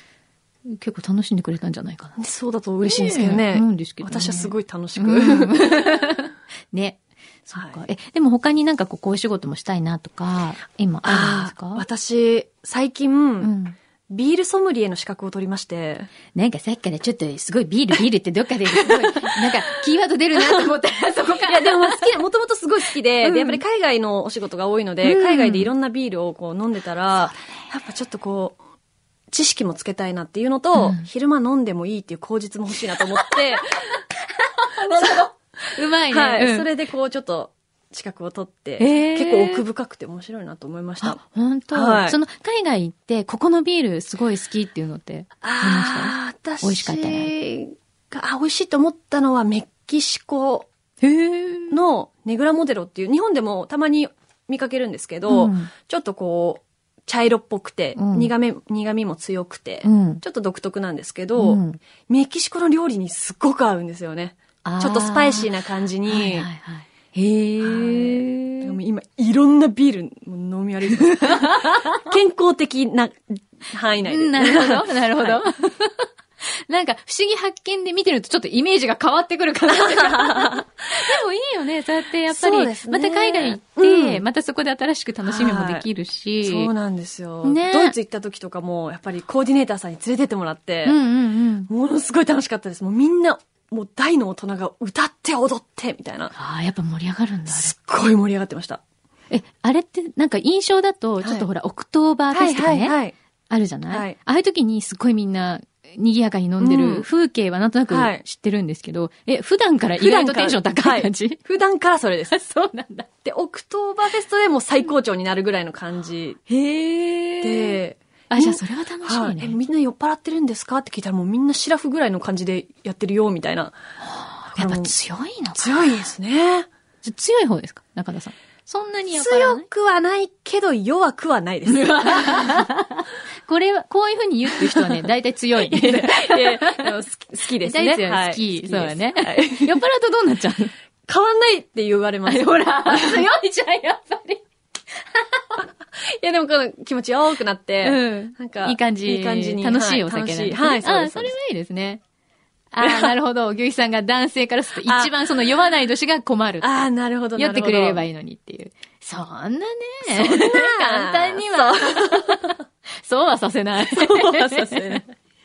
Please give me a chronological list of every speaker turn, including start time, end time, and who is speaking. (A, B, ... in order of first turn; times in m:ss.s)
0:00.7-0:02.2 A
0:02.2-0:05.6 B
0:02.8-0:11.8 A
0:11.0-0:13.5 B
0:13.4-0:13.8 A
0:14.1-0:16.1 B
0:16.3-0:22.1 A
0:21.3-0:28.6 B
0:23.2-0:23.6 A
0:25.0-0:25.7 A
0:29.3-0:33.9 B
0:30.8-0:31.0 A
0:34.6-0:36.7 A
0:34.9-0:35.3 B
0:36.1-0:41.2 B
0:38.8-0:39.6 A
0:41.0-0:47.3 A
0:41.7-0:42.2 B
0:45.4-0:50.7 B
0:51.0-0:51.8 A
0:51.7-1:06.5 B
0:55.3-0:55.7 A
0:57.9-0:58.3 A
0:59.8-1:00.2 A
1:01.4-1:01.8 A
1:04.6-1:05.5 A
1:06.1-1:08.7 A
1:07.6-1:15.4 B
1:11.2-1:12.0 A
1:14.0-1:26.7 A
1:19.7-1:20.6 B
1:22.3-1:24.2 B
1:25.2-1:25.9 B
1:26.4-1:31.0 B
1:27.4-1:27.9 A
1:30.8-1:31.7 A
1:31.7-1:36.3 B
1:36.3-1:37.7 A
1:37.5-1:38.8 B
1:39.3-1:43.0 A
1:41.2-1:41.4 B
1:42.3-1:43.2 B
1:43.5-1:51.4 A
1:43.9-1:44.2 B
1:46.6-1:47.1 B
1:47.9-1:48.2 B
1:50.0-1:52.3 B
1:52.3-1:53.1 A
1:53.2-1:56.4 B
1:56.5-1:57.8 A
1:57.4-2:03.7 B
1:58.3-1:59.6 A
2:04.0-2:06.0 A
2:04.6-2:04.9 B
2:05.5-2:06.7 B
2:07.0-2:09.6 A
2:09.1-2:12.6 B
2:11.7-2:17.0 A
2:14.6-2:14.9 B
2:15.7-2:19.8 B
2:17.6-2:20.7 A
2:21.1-2:23.3 B
2:22.2-2:24.4 A
2:25.1-2:25.6 A
2:26.1-2:31.3 B
2:27.8-2:32.0 A
2:32.7-2:45.0 A
2:32.8-2:33.1 B
2:34.8-2:35.5 B
2:36.6-2:38.0 B
2:40.0-2:42.5 B
2:43.9-2:45.1 B